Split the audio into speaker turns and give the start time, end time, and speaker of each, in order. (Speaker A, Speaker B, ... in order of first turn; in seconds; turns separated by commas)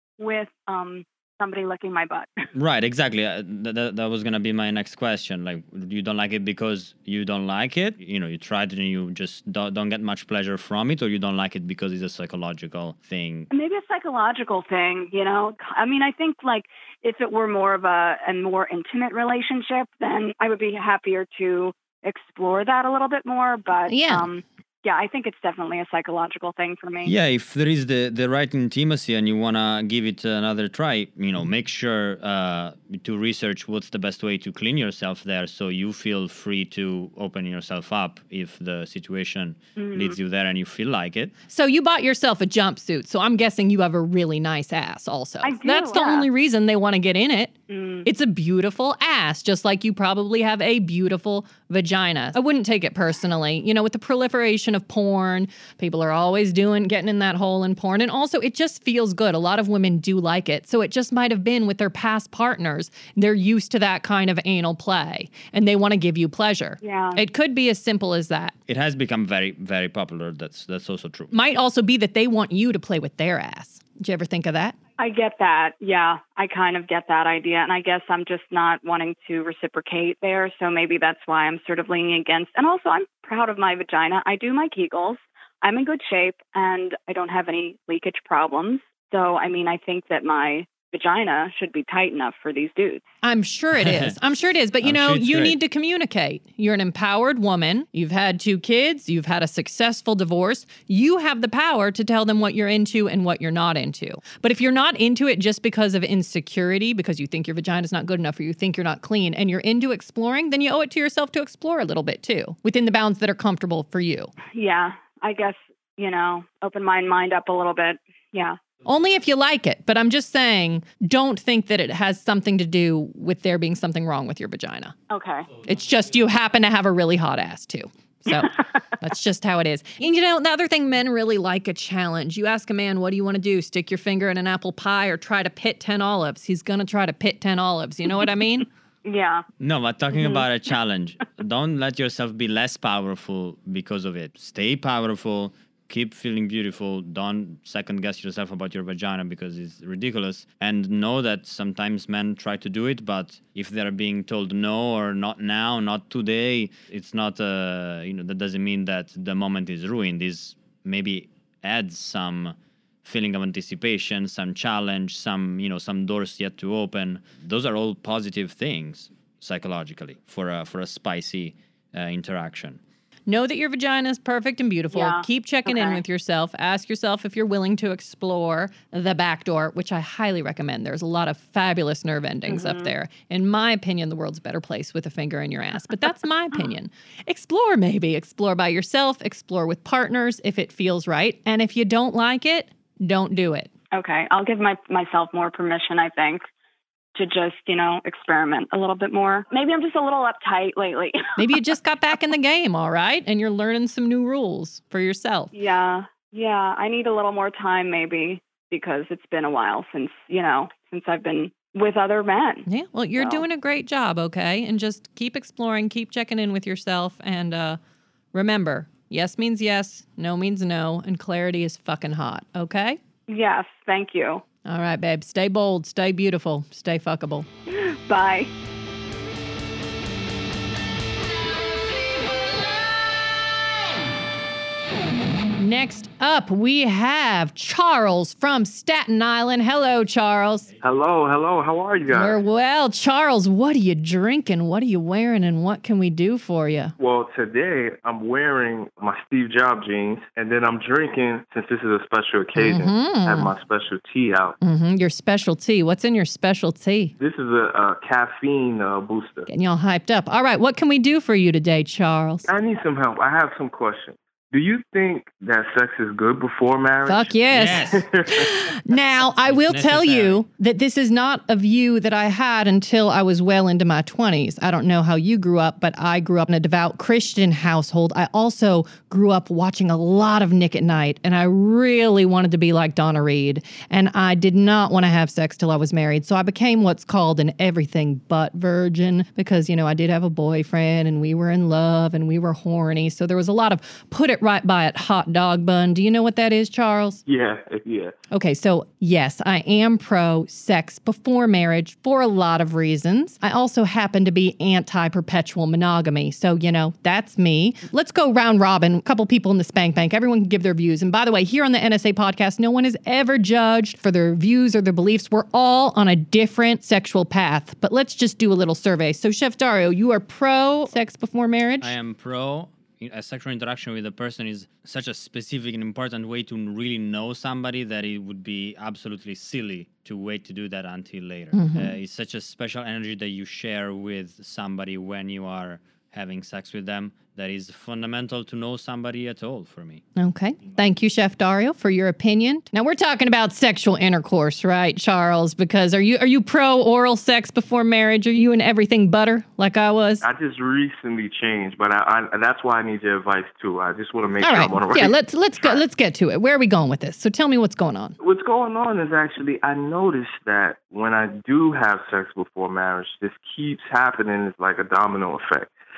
Speaker A: 0.2-2.3, Speaker B: 2.5-13.5, Speaker A: 13.5-27.1, Speaker C: 23.9-24.3, Speaker B: 27.0-41.3, Speaker A: 39.8-40.2, Speaker C: 41.5-68.5, Speaker A: 45.4-46.3, Speaker A: 47.7-48.1, Speaker A: 66.8-67.2, Speaker B: 68.7-71.3, Speaker C: 71.3-74.8, Speaker A: 75.0-93.0, Speaker C: 93.2-114.3, Speaker B: 93.8-94.1, Speaker B: 94.8-95.6, Speaker A: 114.5-118.6, Speaker C: 118.8-124.9, Speaker A: 125.1-125.5, Speaker C: 125.6-138.7, Speaker A: 139.0-139.4, Speaker B: 139.6-172.8, Speaker A: 140.1-140.5, Speaker C: 173.3-193.7, Speaker A: 174.9-176.0, Speaker A: 182.5-182.9, Speaker A: 193.9-196.4, Speaker A: 197.1-201.4, Speaker C: 201.4-205.5, Speaker A: 205.5-212.7, Speaker C: 212.7-217.8, Speaker A: 213.2-213.4, Speaker C: 218.3-223.0, Speaker A: 223.3-224.4, Speaker C: 224.6-227.5, Speaker A: 227.7-228.5, Speaker C: 235.6-240.7, Speaker D: 240.8-242.4, Speaker C: 242.1-246.9, Speaker D: 247.0-254.6, Speaker C: 252.6-253.5, Speaker C: 254.6-257.1, Speaker D: 257.2-259.5, Speaker C: 259.5-262.4, Speaker D: 262.5-268.5, Speaker C: 267.1-297.2, Speaker B: 267.5-268.0, Speaker B: 269.4-270.4, Speaker D: 297.2-298.1, Speaker C: 298.3-321.9, Speaker B: 321.8-340.0, Speaker C: 331.5-331.9, Speaker C: 340.2-350.2, Speaker D: 350.2-355.8, Speaker C: 354.4-358.2, Speaker D: 358.2-365.7